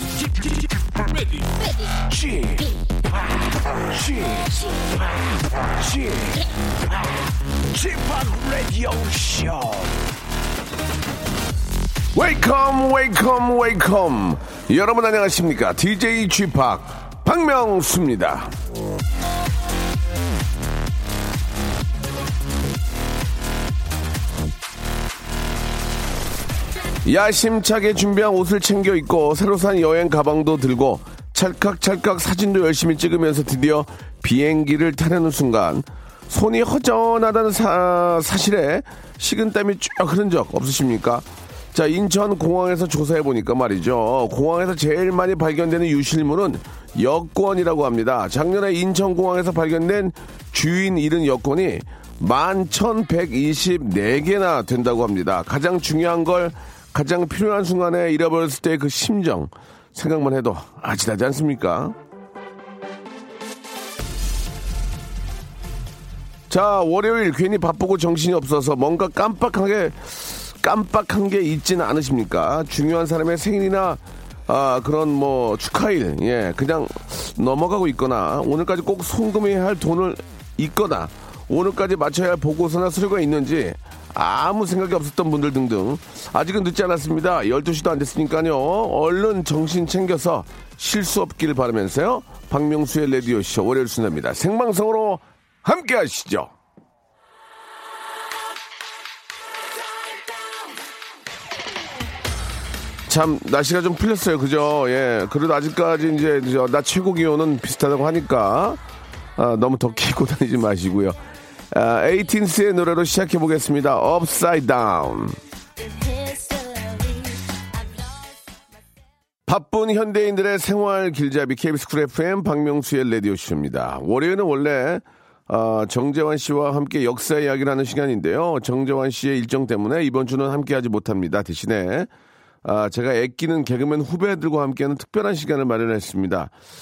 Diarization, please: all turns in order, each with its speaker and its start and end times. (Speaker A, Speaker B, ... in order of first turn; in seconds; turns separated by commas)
Speaker A: 0.3-10.0, Speaker A: 12.1-18.5, Speaker A: 27.0-62.0, Speaker A: 66.5-96.5, Speaker A: 103.1-108.8, Speaker A: 109.3-111.2, Speaker A: 111.7-115.4, Speaker A: 119.5-132.1, Speaker A: 132.6-136.5